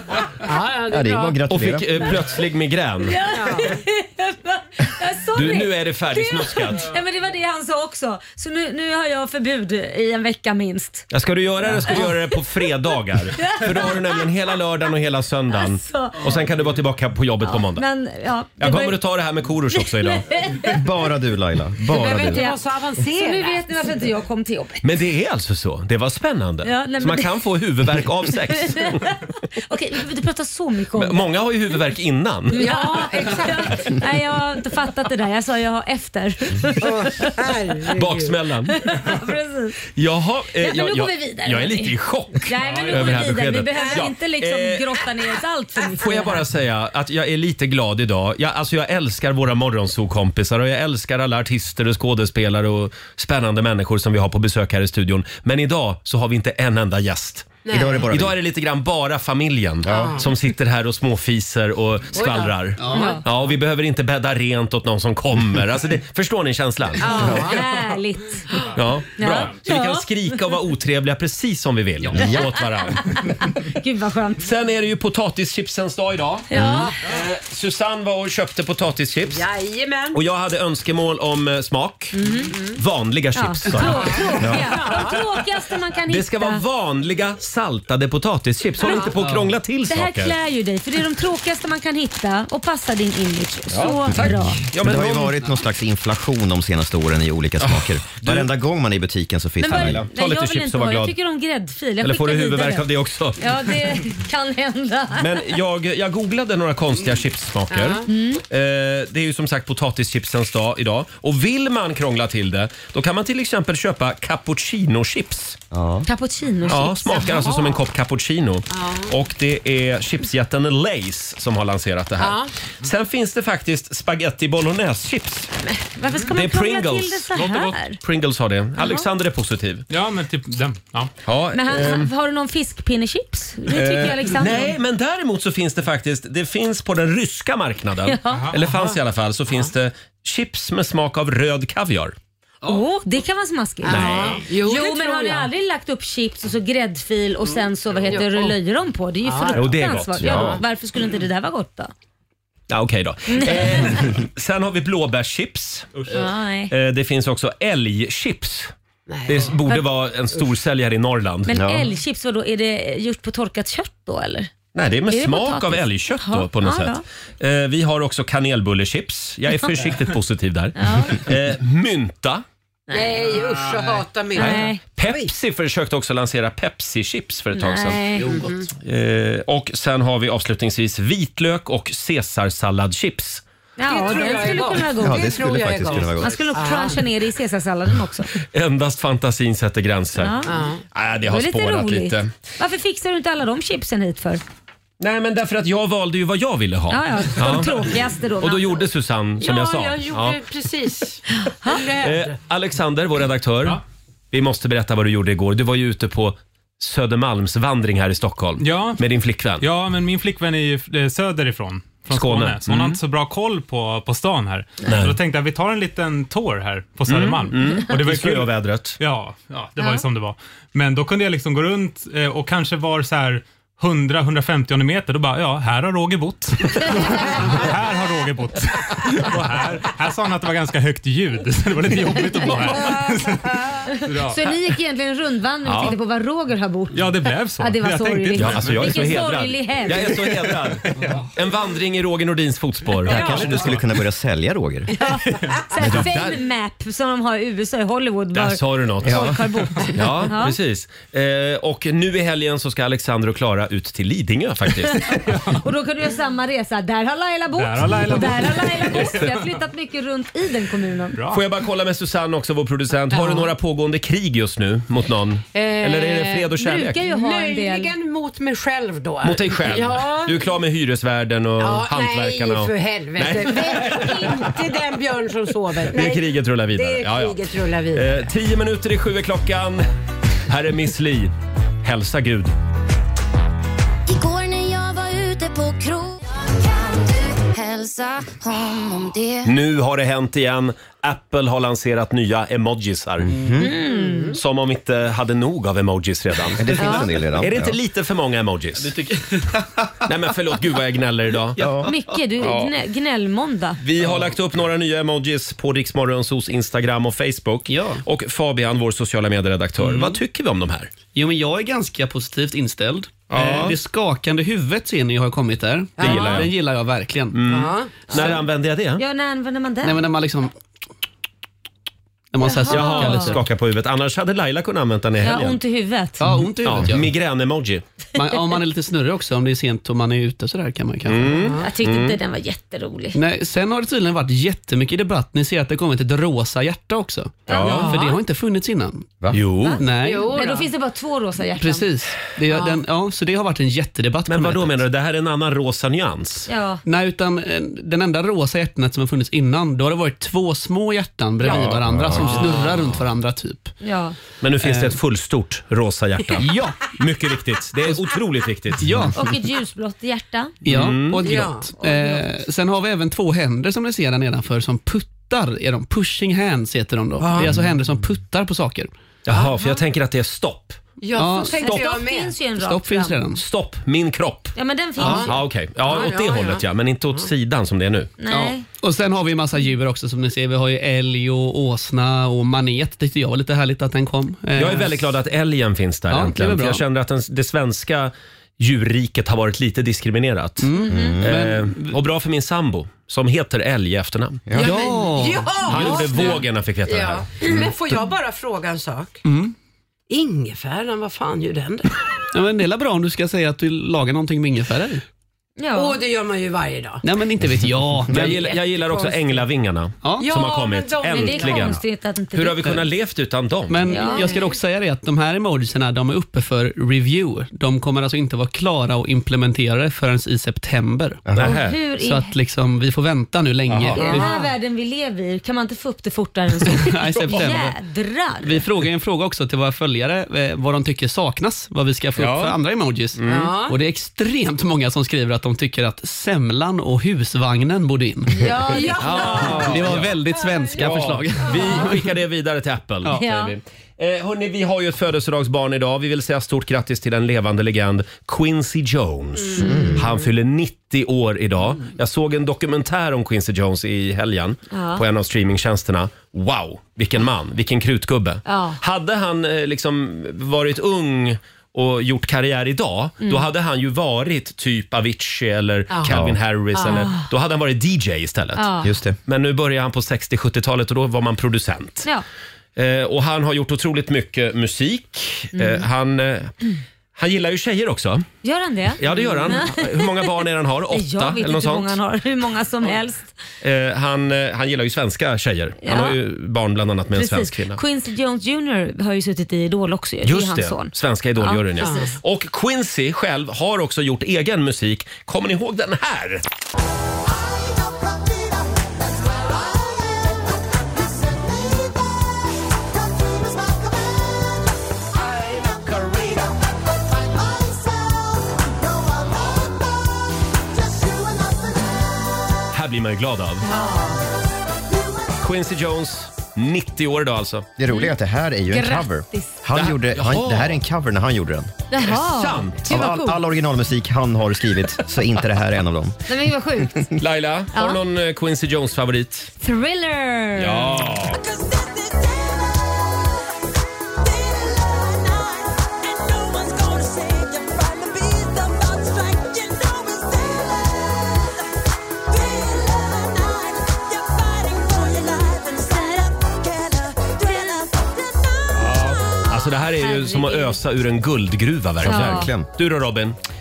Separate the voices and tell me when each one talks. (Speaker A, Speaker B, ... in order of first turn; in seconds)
Speaker A: 0.4-1.4, 3.3-3.8, 21.9-23.7, 32.5-34.0, 36.8-38.3, 57.6-58.1, 59.9-60.3, 62.1-63.2, 67.0-67.7, 79.3-80.2, 82.5-82.8, 83.7-85.2, 88.8-89.1, 107.7-108.1, 117.3-117.8, 118.7-119.1, 122.2-122.5, 138.6-139.0, 143.8-145.5, 148.1-148.6, 149.2-149.7, 159.1-159.6, 172.9-175.3, 178.2-178.7, 183.9-187.1, 190.5-190.8, 199.4-202.4, 232.8-233.2, 263.1-263.5, 265.6-270.4, 271.6-278.3, 293.9-294.4, 296.8-297.1, 316.0-316.5, 317.5-318.1, 331.3-331.6, 337.6-338.2, 340.0-340.7, 342.5-342.8, 351.4-351.8, 361.2-361.7, 367.2-367.5, 371.0-372.4, 375.0-376.6, 394.5-399.2, 400.1-401.9, 405.7-407.0, 410.2-411.8, 414.0-414.5, 424.0-424.5, 433.3-433.8, 438.5-439.8, 466.8-467.1, 491.8-492.1, 513.7-514.2
Speaker B: 0.9-2.1, 20.6-22.5, 57.7-58.4, 59.8-60.2, 72.1-72.4, 76.6-76.9, 94.1-100.0, 115.7-116.1, 150.2-150.6, 161.5-161.9, 185.0-186.6, 243.1-244.9, 249.0-249.4, 293.2-293.7, 296.6-297.8, 301.6-301.9, 351.5-352.4, 390.9-391.4, 394.5-394.7, 421.3-421.6, 449.6-450.0, 466.1-466.4, 468.8-469.2, 517.8-521.7, 522.9-526.2, 552.0-552.7
Speaker C: 1.5-3.2, 5.3-6.9, 11.1-17.8, 18.6-20.3, 24.8-29.0, 31.0-32.7, 37.9-38.8, 39.9-45.0, 46.0-57.6, 58.1-67.5, 68.8-73.1, 74.4-79.5, 80.1-84.7, 86.1-90.3, 93.7-95.4, 97.6-98.5, 99.7-101.1, 102.0-104.0, 105.2-115.6, 116.7-125.5, 126.3-129.9, 131.2-132.1, 133.7-142.2, 143.9-144.4, 149.5-150.6, 152.7-156.0, 156.7-158.7, 159.3-161.6, 164.7-172.4, 174.3-178.0, 178.8-183.4, 188.5-192.3, 195.0-197.9, 198.4-200.4, 202.0-203.8, 204.3-209.7, 212.1-213.0, 214.9-215.2, 217.1-219.0, 235.7-236.0, 238.4-243.8, 245.8-246.4, 248.3-249.4, 249.9-255.1, 261.3-267.0, 269.2-274.6, 275.9-277.4, 277.9-279.9, 280.5-281.3, 281.8-282.5, 289.4-293.3, 294.3-298.9, 300.1-301.6, 302.4-302.7, 303.8-310.9, 313.3-313.8, 316.0-316.5, 317.3-319.0, 322.7-325.6, 326.6-327.8, 331.1-332.2, 337.5-337.9, 339.3-339.8, 344.3-346.5, 351.9-353.0, 354.4-359.1, 360.7-361.4, 369.3-370.8, 373.4-378.1, 384.6-390.7, 391.2-394.4, 395.6-397.5, 408.1-411.8, 412.3-414.0, 421.3-421.8, 423.7-424.1, 432.2-432.6, 433.1-433.5, 439.0-440.1, 440.8-468.7, 469.3-472.1, 472.8-476.5, 477.2-478.3, 479.0-482.0, 483.6-487.8, 490.2-496.4, 512.7-513.7, 515.4-517.7, 519.7-520.8, 522.0-523.0, 527.2-529.5, 530.6-531.4, 548.8-553.4
Speaker D: 3.0-11.1, 11.9-12.7, 13.4-14.3, 15.5-16.3, 17.4-19.0, 19.7-20.8, 22.1-24.8, 26.6-27.3, 28.6-31.2, 32.5-37.4, 38.7-39.8, 40.6-46.4, 62.9-63.2, 67.2-68.5, 69.2-70.1, 72.2-74.5, 76.5-76.9, 82.1-82.5, 83.4-86.6, 88.8-89.1, 89.9-94.6, 99.6-102.9, 103.4-105.3, 108.1-108.4, 116.1-117.5, 125.7-128.0, 128.8-129.1, 131.5-134.8, 138.1-138.5, 142.7-151.9, 153.3-154.1, 156.1-156.7, 161.5-164.5, 165.1-167.0, 170.8-171.2, 172.9-173.2, 174.3-174.8, 177.6-178.4, 183.8-188.3, 190.2-190.5, 191.3-194.4, 196.9-198.8, 201.3-201.8, 233.9-237.1, 237.6-240.2, 245.0-250.6, 254.9-261.2, 266.6-267.9, 293.6-294.4, 301.9-303.8, 319.0-320.0, 322.4-323.4, 325.2-326.3, 331.6-333.2, 337.5-338.0, 339.6-341.9, 346.5-346.8, 353.8-354.2, 359.1-360.6, 361.8-362.3, 371.5-373.2, 374.6-375.4, 378.2-378.7, 390.8-391.2, 405.6-406.0, 411.1-412.6, 413.9-414.4, 421.4-422.3, 424.0-428.6, 438.4-439.5, 443.1-443.6, 454.7-455.0, 458.5-458.8, 463.2-463.5, 466.8-467.3, 468.6-468.9, 475.6-475.8, 478.4-480.3, 480.9-483.3, 485.8-486.2, 487.1-492.0, 513.6-514.1, 517.9-518.1, 518.7-519.6, 521.9-523.4, 526.3-527.1, 527.7-528.0, 529.6-531.0, 549.8-550.8, 552.0-552.5
Speaker E: 42.7-43.2, 127.5-127.7, 129.9-131.1, 138.3-138.6, 208.6-209.0, 209.6-234.4, 236.9-239.3, 243.1-243.7, 255.2-255.6, 257.6-259.4, 261.1-261.4
Speaker F: 62.8-63.1, 89.2-89.5, 298.8-300.1, 301.6-302.2, 304.0-304.3, 307.7-308.0, 309.8-310.2, 311.1-317.6, 319.8-320.5, 322.3-323.4, 326.2-327.1, 328.1-331.5, 333.1-339.2, 339.8-340.4, 341.6-344.8, 346.9-353.7, 354.6-355.0, 356.4-356.9, 358.8-359.2, 360.6-368.9, 371.1-372.0, 372.5-373.4, 375.0-375.3, 378.3-385.1, 386.1-386.8, 390.6-392.0, 394.6-396.3, 399.2-399.5, 402.3-405.0, 407.0-409.1, 410.0-410.4, 413.7-424.3, 426.7-427.8, 428.4-442.1
Speaker G: 284.1-289.4, 531.3-532.9, 534.2-541.4, 542.3-549.4